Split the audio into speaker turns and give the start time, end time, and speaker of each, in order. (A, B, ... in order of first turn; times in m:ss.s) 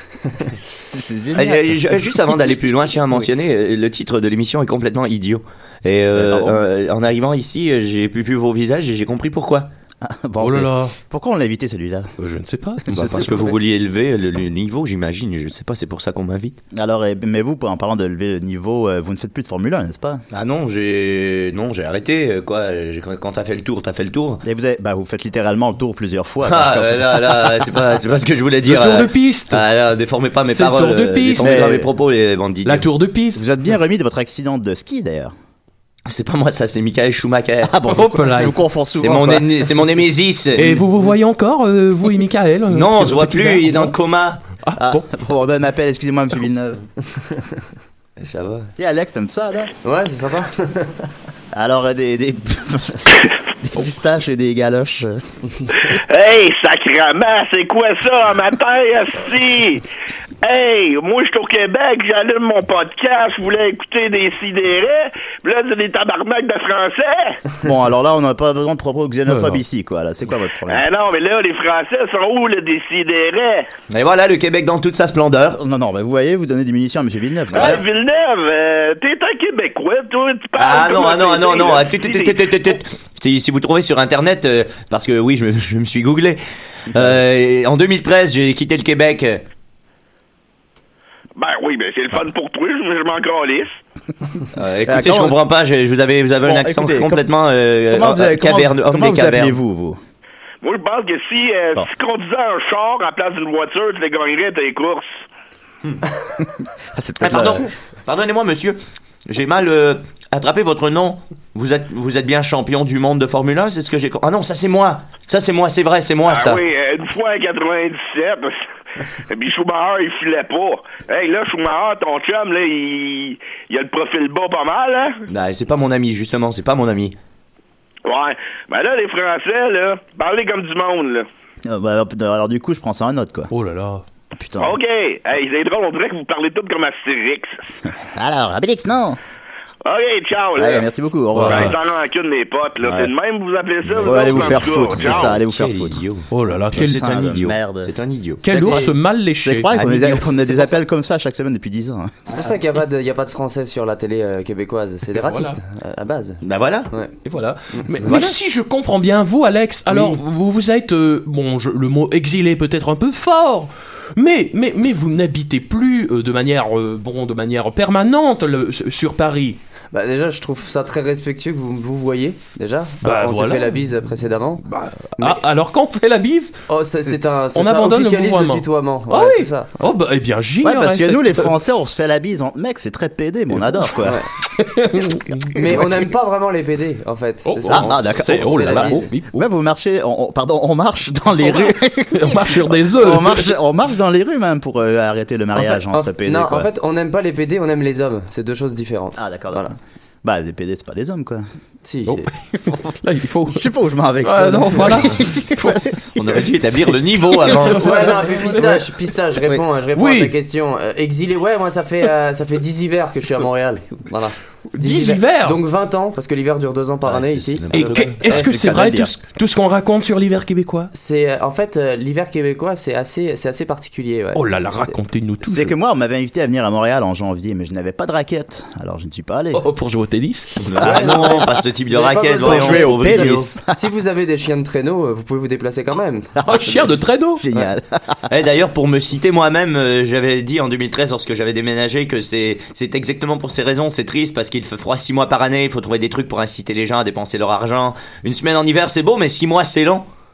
0:00.8-0:02.0 A
0:01.3-0:09.7 B
0:06.1-0:06.6 A
0:10.0-0:12.1 A
0:10.4-0:10.9 C
0:12.2-0:13.5 C
0:12.9-0:13.5 A
0:12.9-0:16.6 B
0:16.7-0:20.2 A
0:20.3-0:24.4 B
0:24.4-0:27.8 A
0:26.4-0:32.9 B
0:28.6-0:29.6 C
0:30.5-0:31.8 C
0:31.4-0:31.9 A
0:32.6-0:33.4 C
0:33.3-0:35.3 A
0:36.0-0:37.8 B
0:37.7-0:39.6 A
0:37.9-0:38.5 C
0:39.0-0:40.9 B
0:40.6-0:43.9 C
0:42.7-0:44.4 B
0:44.6-0:45.0 C
0:44.8-0:46.8 A
0:48.2-0:48.7 B
0:48.8-0:49.8 A
0:49.8-0:51.1 D
0:51.5-0:55.2 A
0:55.8-0:59.8 E
1:00.4-1:07.4 E
1:07.6-1:10.8 A
1:09.3-1:09.6 C
1:10.7-1:13.7 E
1:13.9-1:15.6 B
1:15.5-1:17.8 A
1:17.5-1:22.6 E
1:20.6-1:29.4 B
1:26.9-1:27.2 A
1:31.4-1:33.8 E
1:34.5-1:39.6 B
1:34.8-1:35.4 A
1:36.4-1:37.2 A
1:37.9-1:40.0 A
1:40.6-1:45.2 E
1:46.4-1:47.7 A
1:47.2-1:56.6 B
1:56.3-1:58.6 E
1:59.3-2:05.2 E
2:05.3-2:07.2 B
2:08.0-2:11.3 E
2:11.6-2:13.5 A
2:13.5-2:14.0 C
2:14.3-2:14.8 A
2:14.6-2:17.6 E
2:17.9-2:19.2 A
2:19.8-2:20.8 E
2:20.6-2:21.7 A
2:21.3-2:21.8 C
2:21.5-2:25.3 E
2:22.8-2:23.1 A
2:23.9-2:28.7 B
2:24.0-2:26.0 A
2:26.3-2:27.2 C
2:26.7-2:27.9 A
2:28.4-2:29.7 C
2:28.4-2:32.2 A
2:29.8-2:30.3 B
2:32.3-2:37.1 D
2:35.2-2:35.6 C
2:36.4-2:36.8 B
2:36.6-2:36.8 A
2:37.2-2:49.6 C
2:37.7-2:38.2 D
2:49.9-2:54.6 D
2:53.0-2:53.9 C
2:54.6-2:56.5 C
2:56.7-2:59.8 D
2:57.5-3:01.5 C
3:00.6-3:04.2 A
3:04.5-3:05.8 C
3:05.6-3:09.1 D
3:07.4-3:09.4 C
3:07.7-3:16.7 A
3:11.5-3:13.5 C
3:15.6-3:19.7 D
3:19.2-3:21.4 A
3:21.8-3:22.3 D
3:22.2-3:23.6 C
3:23.5-3:26.4 A
3:24.2-3:26.0 C
3:26.1-3:28.3 B
3:27.6-3:28.8 C
3:27.7-3:38.4 D
3:29.9-3:30.3 C
3:34.8-3:35.6 C
3:37.0-3:38.2 B
3:37.7-3:40.9 C
3:38.2-3:39.1 A
3:40.9-3:44.9 D
3:44.3-3:45.7 C
3:45.4-3:49.6 A
3:49.5-3:50.7 C
3:50.6-3:53.5 B
3:50.8-3:51.5 A
3:50.8-3:56.3 D
3:52.4-3:53.8 A
3:56.4-3:57.4 C
3:56.4-3:58.2 A
3:58.3-4:10.0 B